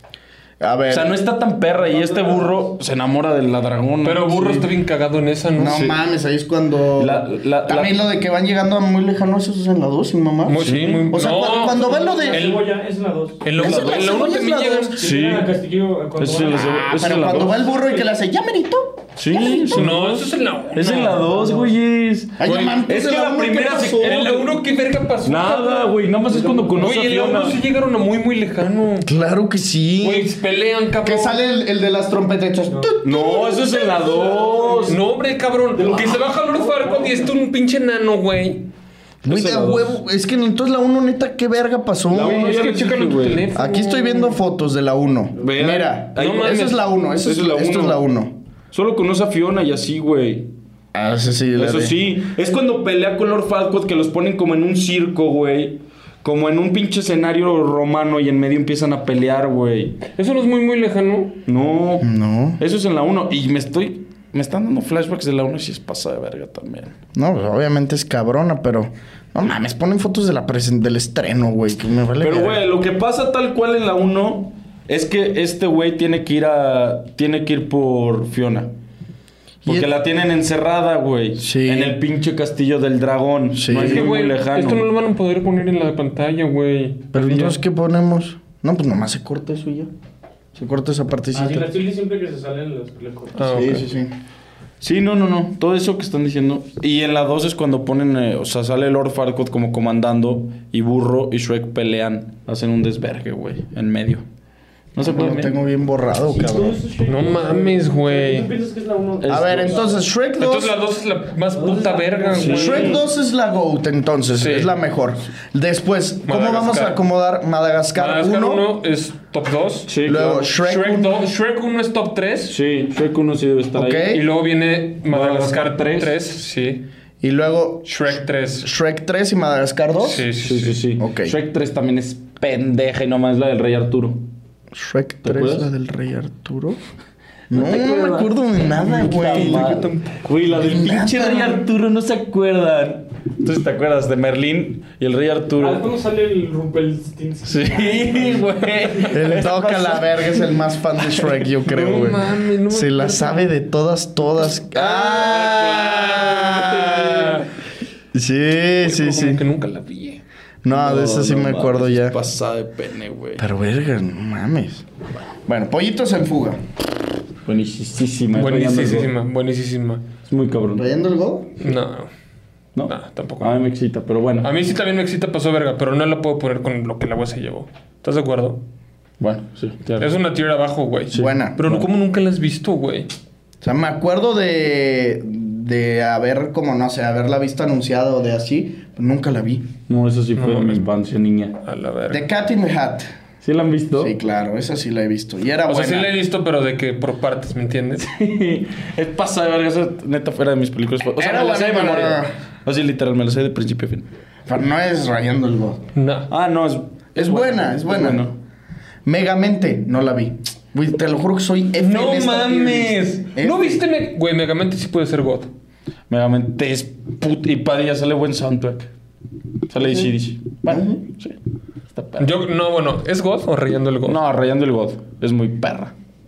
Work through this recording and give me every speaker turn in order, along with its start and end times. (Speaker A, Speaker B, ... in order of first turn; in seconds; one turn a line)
Speaker A: 0.6-1.1
Speaker B: 0.9-4.7
Speaker C: 1.7-2.7
Speaker D: 4.0-5.8
Speaker A: 5.5-12.6
Speaker B: 5.6-6.0
Speaker B: 7.0-8.0
Speaker D: 10.4-12.6
Speaker B: 10.6-11.1
Speaker C: 11.3-13.4
Speaker D: 13.4-15.0
Speaker A: 13.6-15.0
Speaker B: 13.6-14.1
Speaker C: 15.0-17.1
Speaker B: 15.0-15.5
Speaker B: 16.2-17.7
Speaker A: 16.6-20.0
Speaker C: 17.7-18.1
Speaker B: 19.2-24.6
Speaker D: 19.7-21.3
Speaker C: 21.2-21.7
Speaker A: 22.4-24.4
Speaker D: 22.4-22.8
Speaker D: 24.0-25.9
Speaker B: 25.2-27.6
Speaker C: 26.3-26.9
Speaker D: 26.7-29.1
Speaker A: 29.0-30.3
Speaker D: 30.0-31.4
Speaker A: 31.0-34.7
Speaker C: 32.7-32.9
Speaker B: 33.0-35.0
Speaker C: 33.8-35.0
Speaker D: 34.9-38.6
Speaker C: 35.7-37.3
Speaker B: 35.9-36.2
Speaker B: 39.2-40.0
Speaker A: 39.2-42.5
Speaker B: 42.1-43.5
Speaker D: 42.1-44.4
Speaker A: 43.5-48.3
Speaker B: 45.4-48.0
Speaker D: 46.2-46.8
Speaker B: 48.7-50.5
Speaker A: 50.9-52.0
Speaker B: 51.5-60.0
Speaker D: 60.1-61.4
Speaker B: 61.5-67.0
Speaker A: 62.0-62.6
Speaker A: 67.1-72.6
Speaker B: 72.2-78.7
Speaker B: 79.6-84.8
Speaker A: 81.4-82.0
Speaker A: 83.5-84.1
Speaker D: 83.7-87.5
Speaker A: 87.1-89.9
Speaker A: 90.5-91.7
Speaker C: 91.3-93.9
Speaker D: 93.3-93.9
Speaker A: 93.5-94.1
Speaker B: 94.8-104.2
Speaker B: 104.9-105.5
Speaker A: 105.0-106.8
Speaker C: 106.3-109.9
Speaker D: 107.0-108.5
Speaker B: 109.2-109.9
Speaker A: 109.3-110.7
Speaker D: 110.4-113.0
Speaker C: 111.5-113.0
Speaker B: 112.3-113.0
Speaker A: 112.4-118.6
Speaker D: 114.3-114.7
Speaker D: 116.2-117.0
Speaker D: 117.9-119.9
Speaker B: 119.9-120.5
Speaker A: 120.0-121.2
Speaker D: 120.5-122.5
Speaker B: 122.5-124.1
Speaker A: 123.7-124.2
Speaker D: 124.0-126.8
Speaker B: 125.1-126.2
Speaker A: 127.2-130.2
Speaker D: 127.8-128.7
Speaker D: 130.0-130.8
Speaker B: 130.4-134.2
Speaker A: 131.0-131.3
Speaker A: 134.7-136.8
Speaker B: 135.2-135.7
Speaker A: 137.5-139.9
Speaker B: 137.5-145.9
Speaker D: 139.2-140.1
Speaker A: 140.5-141.6
Speaker C: 145.6-149.1
Speaker B: 147.4-150.5
Speaker A: 149.1-157.4
Speaker D: 151.6-153.5
Speaker B: 154.7-156.6
Speaker D: 155.1-157.5
Speaker A: 158.1-159.4
Speaker D: 158.8-160.2
Speaker A: 160.6-162.2
Speaker B: 160.7-163.4
Speaker A: 163.4-164.8
Speaker A: 165.4-166.6
Speaker B: 167.4-169.1
Speaker D: 168.3-170.0
Speaker B: 170.2-170.8
Speaker A: 170.7-171.6
Speaker D: 171.6-172.1
Speaker B: 172.7-174.5
Speaker D: 172.8-173.6
Speaker D: 174.4-178.6
Speaker B: 179.2-180.1
Speaker D: 180.0-183.1
Speaker B: 181.1-181.9
Speaker A: 181.1-181.6
Speaker A: 183.6-189.7
Speaker B: 189.9-191.6
Speaker D: 190.4-190.8
Speaker D: 191.6-192.3
Speaker A: 192.1-193.0
Speaker B: 193.4-194.2
Speaker A: 194.0-196.1
Speaker D: 195.7-198.1
Speaker B: 198.0-204.1
Speaker A: 201.2-202.3
Speaker A: 204.5-205.8
Speaker D: 205.9-206.3
Speaker B: 206.3-208.3
Speaker A: 207.2-208.3
Speaker A: 209.0-213.8
Speaker D: 211.8-215.5
Speaker B: 216.1-218.9
Speaker B: 219.7-221.3
Speaker A: 219.8-220.1
Speaker A: 220.7-221.0
Speaker B: 221.9-222.3
Speaker D: 222.2-224.2
Speaker B: 224.1-225.9